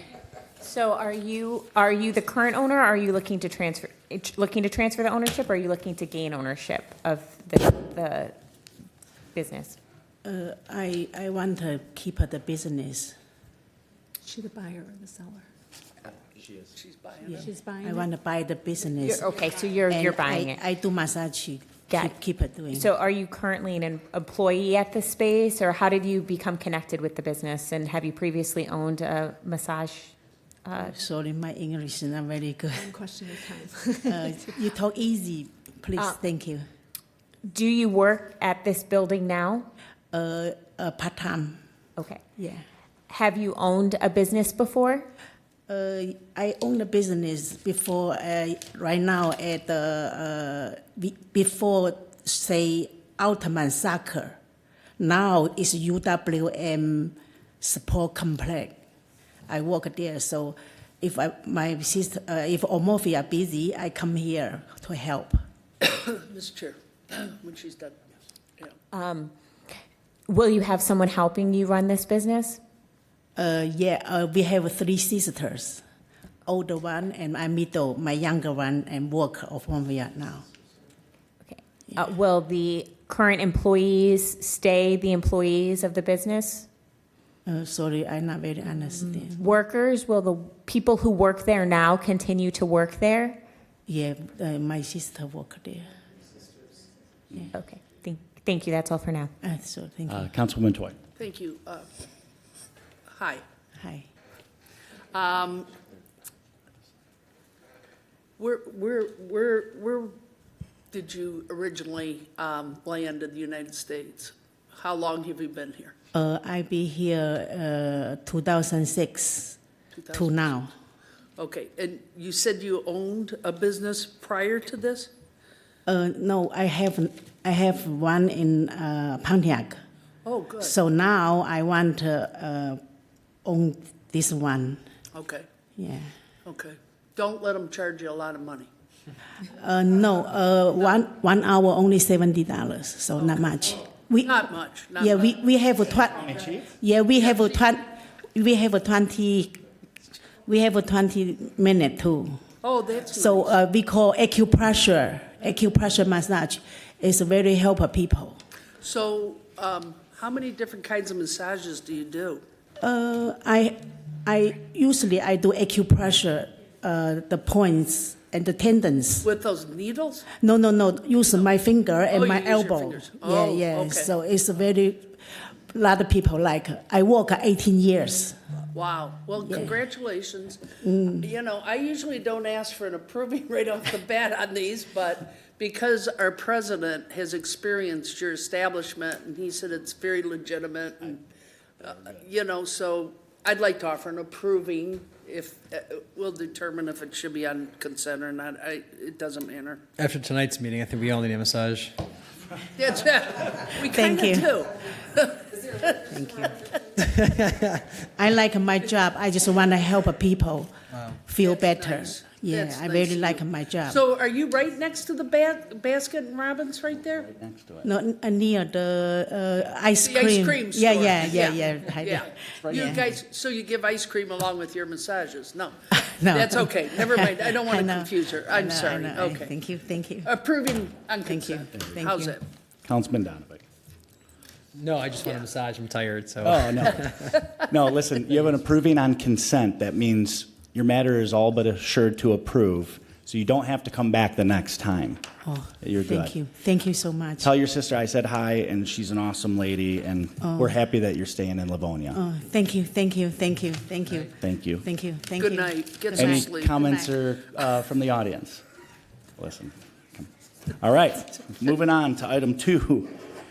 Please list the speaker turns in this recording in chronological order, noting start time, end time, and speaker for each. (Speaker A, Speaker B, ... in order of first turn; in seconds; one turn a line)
Speaker A: 0.6-8.3
Speaker A: 9.3-9.8
Speaker B: 10.2-13.2
Speaker C: 14.2-15.4
Speaker D: 16.8-17.5
Speaker B: 17.3-19.3
Speaker C: 17.4-18.1
Speaker A: 19.0-20.6
Speaker B: 19.9-22.9
Speaker A: 21.9-22.1
Speaker A: 22.7-30.1
Speaker A: 30.6-30.9
Speaker B: 30.8-33.0
Speaker C: 32.8-34.2
Speaker B: 34.0-36.6
Speaker A: 37.4-39.7
Speaker B: 40.1-41.6
Speaker B: 42.4-42.6
Speaker A: 43.1-45.1
Speaker B: 45.7-54.4
Speaker B: 55.0-58.8
Speaker B: 59.5-65.4
Speaker D: 65.8-68.0
Speaker A: 68.9-69.3
Speaker A: 70.3-72.6
Speaker B: 73.3-75.8
Speaker B: 76.5-80.5
Speaker A: 81.5-86.7
Speaker B: 87.5-89.4
Speaker A: 89.2-93.4
Speaker B: 93.9-95.9
Speaker A: 97.5-99.3
Speaker B: 99.4-100.3
Speaker E: 100.1-101.0
Speaker D: 101.2-101.9
Speaker D: 103.1-103.4
Speaker B: 103.8-104.1
Speaker D: 105.1-105.7
Speaker D: 108.4-110.1
Speaker D: 110.9-115.9
Speaker B: 116.1-119.6
Speaker D: 119.9-120.5
Speaker B: 120.1-120.7
Speaker D: 121.4-125.1
Speaker B: 125.8-129.8
Speaker D: 130.2-130.8
Speaker B: 130.6-132.8
Speaker B: 133.4-134.8
Speaker D: 135.1-135.4
Speaker B: 135.8-136.1
Speaker D: 136.4-138.7
Speaker B: 139.5-149.6
Speaker D: 144.2-145.2
Speaker D: 147.2-147.6
Speaker B: 150.4-152.4
Speaker D: 152.6-153.5
Speaker B: 153.1-158.4
Speaker D: 158.8-162.4
Speaker B: 162.8-169.3
Speaker D: 169.2-170.3
Speaker B: 170.4-178.4
Speaker D: 172.1-174.1
Speaker D: 178.7-180.6
Speaker B: 180.8-181.3
Speaker D: 181.2-191.2
Speaker D: 191.8-199.8
Speaker F: 200.0-201.9
Speaker D: 202.8-205.9
Speaker B: 203.9-204.5
Speaker B: 206.1-206.6
Speaker F: 207.2-207.7
Speaker B: 208.2-214.0
Speaker D: 211.4-217.3
Speaker E: 217.3-217.8
Speaker B: 217.8-223.1
Speaker D: 220.0-229.5
Speaker E: 222.7-223.0
Speaker B: 225.9-230.3
Speaker D: 230.2-232.4
Speaker B: 231.2-232.4
Speaker E: 232.8-233.6
Speaker F: 234.7-237.3
Speaker E: 236.4-245.2
Speaker B: 245.4-247.5
Speaker E: 245.8-246.3
Speaker E: 247.4-252.2
Speaker B: 250.4-250.7
Speaker B: 252.1-257.1
Speaker E: 254.4-254.8
Speaker D: 255.4-256.8
Speaker E: 256.1-258.6
Speaker E: 259.4-263.1